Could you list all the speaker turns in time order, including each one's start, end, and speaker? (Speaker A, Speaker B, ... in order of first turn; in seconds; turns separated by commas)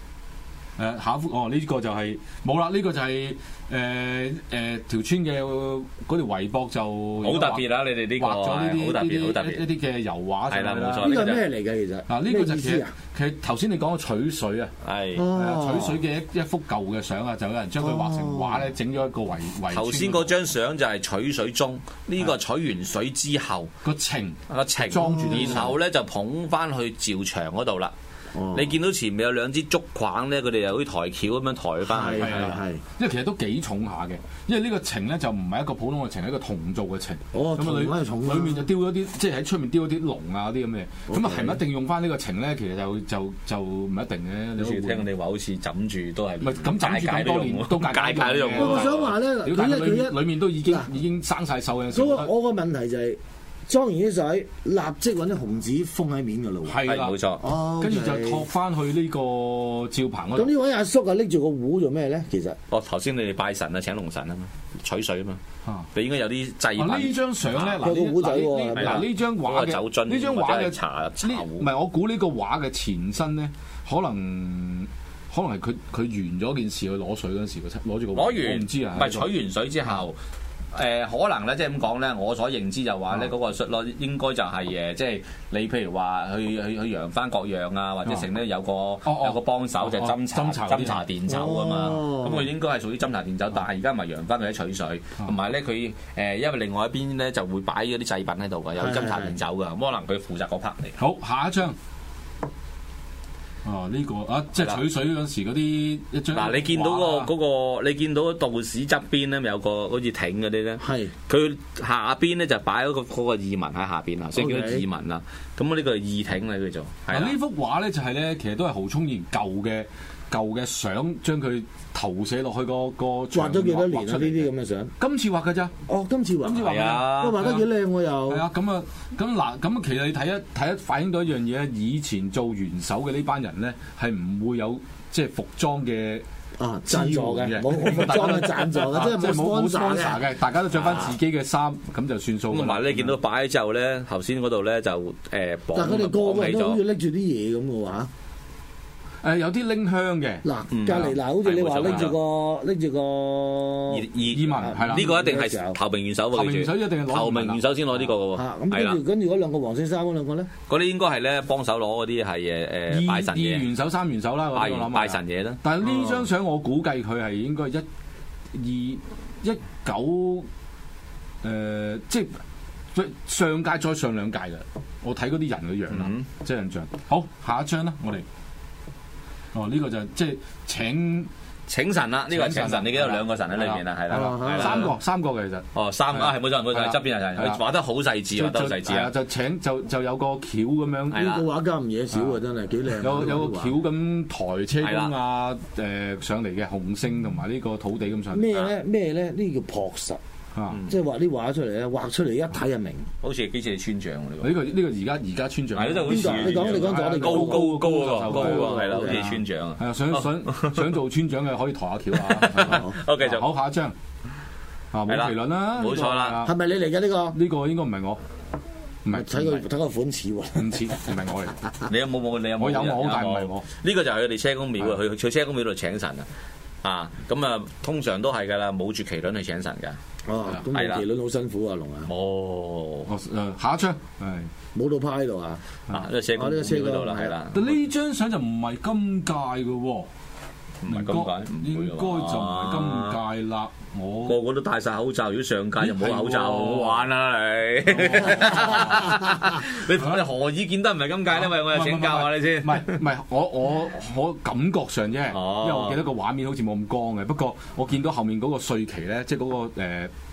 Speaker A: 0.8-11.1, Speaker B: 7.2-9.6, Speaker B: 10.5-11.5, Speaker C: 11.0-12.9, Speaker A: 12.1-14.7, Speaker B: 14.8-15.3, Speaker C: 15.1-16.0, Speaker A: 15.3-20.4, Speaker C: 17.8-18.7, Speaker B: 19.7-23.7, Speaker A: 23.8-25.8, Speaker B: 24.5-27.9, Speaker C: 24.9-25.6, Speaker C: 28.3-28.7, Speaker B: 28.5-32.6, Speaker C: 31.9-32.8, Speaker A: 32.1-45.1, Speaker C: 37.3-38.7, Speaker C: 41.1-41.6, Speaker B: 44.6-49.1, Speaker A: 46.4-52.3, Speaker C: 48.5-50.9, Speaker C: 51.9-56.8, Speaker A: 56.6-57.2, Speaker B: 56.8-57.4, Speaker C: 57.4-58.4, Speaker A: 57.8-60.5, Speaker C: 60.3-62.6, Speaker B: 62.7-65.4, Speaker B: 65.9-67.8, Speaker A: 66.8-79.3, Speaker C: 67.8-69.0, Speaker B: 68.8-71.7, Speaker B: 78.1-80.2, Speaker B: 80.7-101.0, Speaker A: 89.0-91.0, Speaker C: 91.3-92.5, Speaker C: 98.8-99.3, Speaker A: 101.0-101.8, Speaker A: 103.6-107.3, Speaker B: 106.3-117.3, Speaker C: 110.8-111.1, Speaker C: 114.3-114.8, Speaker A: 117.1-125.7, Speaker C: 123.3-124.9, Speaker C: 125.9-128.4, Speaker A: 126.4-127.7, Speaker B: 126.6-127.5, Speaker A: 128.3-136.2, Speaker C: 136.6-140.2, Speaker A: 136.9-143.1, Speaker B: 140.7-141.2, Speaker B: 142.5-146.8, Speaker C: 145.7-148.1, Speaker A: 149.2-150.4, Speaker C: 150.4-154.0, Speaker B: 150.7-152.2, Speaker B: 153.9-159.0, Speaker A: 154.3-155.1, Speaker C: 154.6-155.8, Speaker A: 156.3-157.6, Speaker C: 158.3-160.5, Speaker B: 160.7-163.7, Speaker A: 162.9-167.8, Speaker B: 164.5-165.6, Speaker A: 168.5-170.5, Speaker A: 171.4-172.4, Speaker A: 172.9-178.2, Speaker B: 175.9-176.3, Speaker A: 179.5-181.3, Speaker B: 181.7-184.9, Speaker A: 182.3-187.6, Speaker C: 184.1-184.9, Speaker B: 185.7-189.1, Speaker A: 188.3-191.3, Speaker B: 191.1-191.5, Speaker C: 191.2-193.7, Speaker A: 193.0-198.5, Speaker B: 194.8-195.1, Speaker C: 198.3-200.2, Speaker A: 200.5-200.8, Speaker B: 200.7-200.9, Speaker C: 200.9-203.1, Speaker B: 203.2-204.6, Speaker A: 204.4-213.9, Speaker B: 205.7-210.9, Speaker C: 206.1-209.3, Speaker B: 212.2-213.4, Speaker C: 212.6-212.9, Speaker A: 214.9-216.6, Speaker B: 215.1-216.4, Speaker C: 216.4-217.4, Speaker A: 217.3-218.2, Speaker A: 219.0-219.6, Speaker C: 219.1-220.9, Speaker A: 220.5-221.6, Speaker B: 221.9-226.2, Speaker A: 222.6-223.6, Speaker B: 226.8-230.0, Speaker C: 230.3-232.1, Speaker B: 230.6-231.0, Speaker B: 232.1-233.1, Speaker A: 233.1-234.5, Speaker C: 234.7-235.6, Speaker B: 235.9-237.8, Speaker C: 236.3-237.3, Speaker A: 237.5-240.1, Speaker B: 240.8-243.2, Speaker A: 240.9-244.4, Speaker B: 244.2-253.0, Speaker A: 245.8-247.1, Speaker A: 247.9-249.2, Speaker A: 249.9-250.2, Speaker A: 251.3-260.1, Speaker B: 255.3-256.0